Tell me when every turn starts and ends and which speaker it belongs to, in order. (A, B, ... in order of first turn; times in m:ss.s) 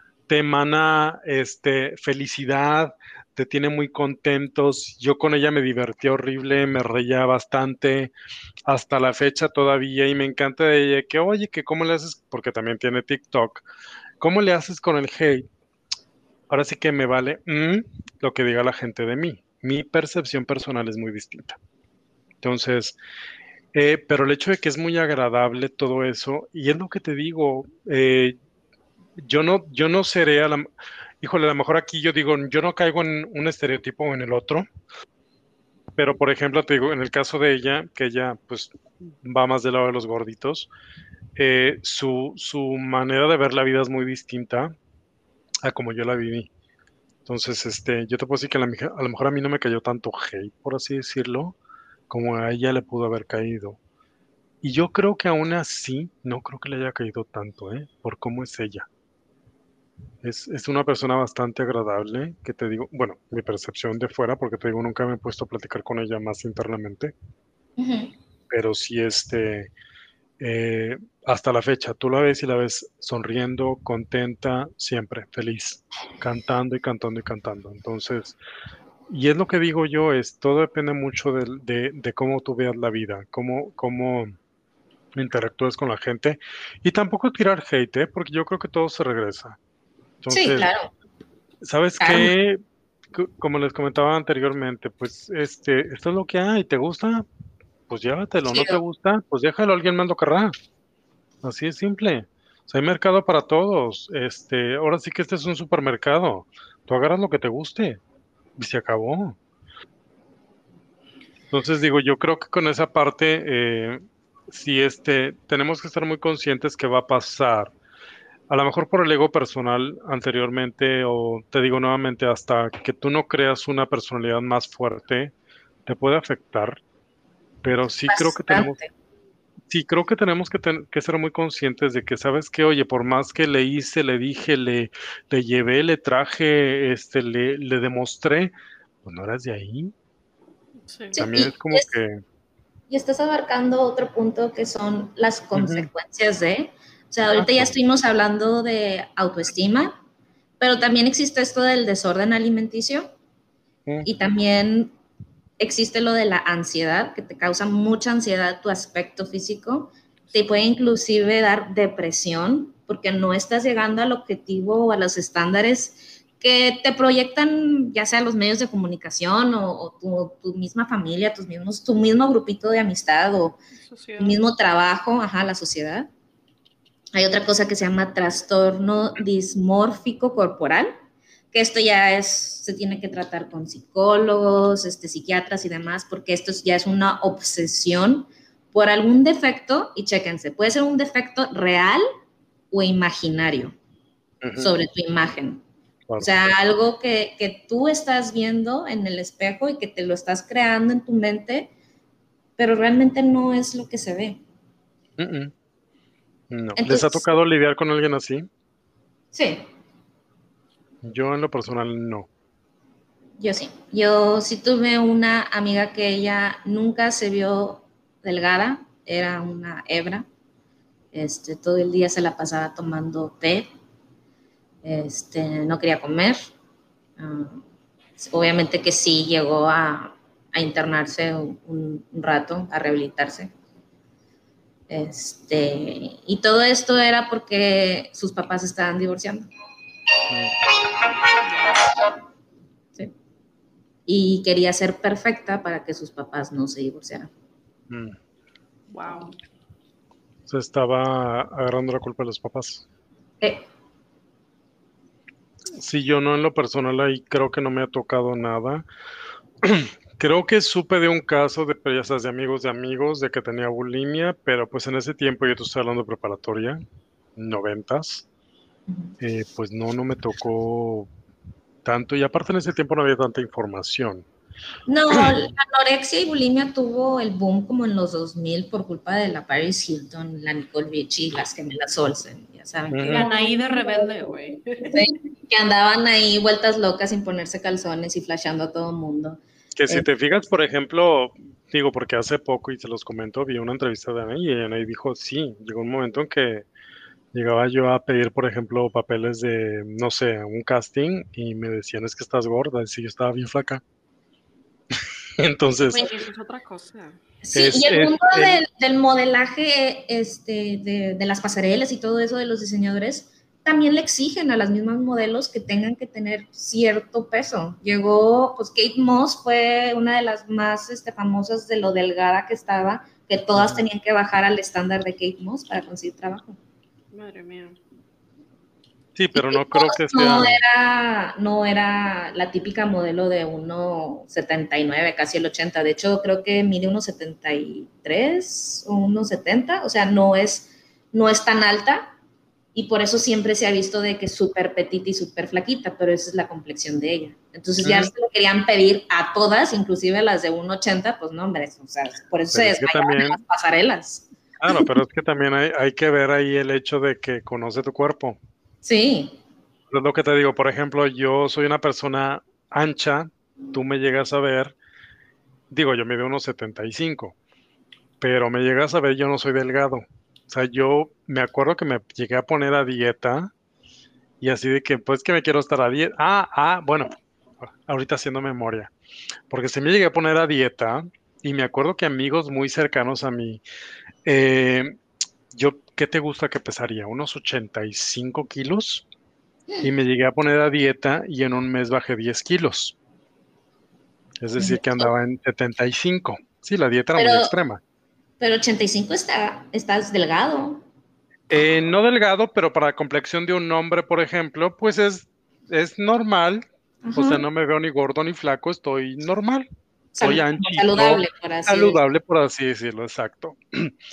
0:00.3-0:08.1 A
0:08.6-0:13.6 A
0:14.2-0:15.4 A
0:16.5-0:21.6 A
0:22.4-0:23.0 A
0:23.7-0:28.4 A
0:29.2-0:30.7 A
0:31.2-0:34.6 A
0:36.0-0:40.7 A
0:41.4-0:44.7 A
0:45.6-0:46.5 A
0:47.2-0:51.6 A
0:52.1-0:53.8 A
0:54.6-0:58.9 A
1:00.2-1:07.1 A
1:07.8-1:08.1 B
1:08.5-1:09.7 A
1:10.4-1:18.4 A
1:19.1-1:24.4 A
1:25.1-1:29.6 A
1:30.2-1:30.7 A
1:30.3-1:30.9 B
1:31.6-1:32.6 A
1:32.0-1:32.3 B
1:33.1-1:37.2 A
1:37.9-1:40.5 A
1:38.4-1:38.8 B
1:41.4-1:48.0 A
1:48.6-1:49.4 A
1:51.5-1:57.7 A
1:58.5-2:05.3 A
2:05.8-2:06.8 A
2:07.6-2:08.8 A
2:08.1-2:08.9 B
2:09.7-2:18.5 A
2:19.0-2:19.9 A
2:20.9-2:21.2 C
2:21.1-2:21.9 B
2:21.2-2:22.2 A
2:22.9-2:30.0 B
2:25.5-2:25.9 A
2:27.3-2:27.7 A
2:30.6-2:33.1 B
2:34.0-2:34.9 B
2:35.6-2:53.6 B
2:53.8-2:54.4 C
2:54.2-2:56.1 B
2:57.1-3:00.9 B
3:01.5-3:12.0 B
3:12.7-3:13.7 B
3:14.4-3:14.8 A
3:14.6-3:15.6 B
3:16.1-3:16.5 A
3:16.2-3:21.7 B
3:22.6-3:24.4 B
3:25.2-3:25.5 A
3:26.5-3:28.5 A
3:26.8-3:27.2 B
3:29.3-3:29.6 B
3:31.0-3:32.3 A
3:33.4-3:40.2 B
3:41.1-3:43.7 B
3:44.8-3:46.5 B
3:47.2-3:47.6 B
3:48.2-3:53.5 B
3:54.9-3:59.5 B
4:00.3-4:00.5 A
4:01.4-4:01.8 C
4:04.1-4:07.3 B
4:07.9-4:08.2 A
4:08.9-4:09.3 C
4:10.5-4:12.8 A
4:13.4-4:13.6 B
4:15.8-4:18.8 A
4:19.6-4:26.8 A
4:27.4-4:28.2 A
4:28.9-4:29.1 B
4:29.2-4:31.1 A
4:31.8-4:34.2 A
4:34.9-4:43.3 B
4:42.9-4:43.3 A
4:43.0-4:45.0 C
4:44.9-4:50.0 B
4:49.7-4:56.6 A
4:57.3-5:03.8 A
5:05.4-5:06.1 A
5:05.8-5:07.2 C
5:07.4-5:26.6 B
5:07.5-5:08.6 A
5:23.6-5:23.8 A
5:27.1-5:27.8 C
5:29.2-5:30.6 A
5:29.3-5:42.1 B
5:42.7-5:54.8 B
5:47.8-5:48.1 A
5:52.5-5:53.4 A
5:54.6-5:58.4 A
5:58.8-5:59.4 B
5:59.9-6:04.7 A
6:05.7-6:07.4 A
6:08.2-6:13.5 A
6:14.4-6:17.1 A
6:17.8-6:18.9 A
6:19.5-6:23.6 A
6:24.2-6:25.0 A
6:25.5-6:29.0 A
6:29.8-6:33.0 A
6:34.4-6:37.8 A
6:34.6-6:35.1 B
6:37.1-6:37.5 B
6:38.4-6:40.8 B
6:41.5-6:49.6 A
6:47.0-6:47.4 B
6:50.1-6:52.0 B
6:50.2-6:53.9 A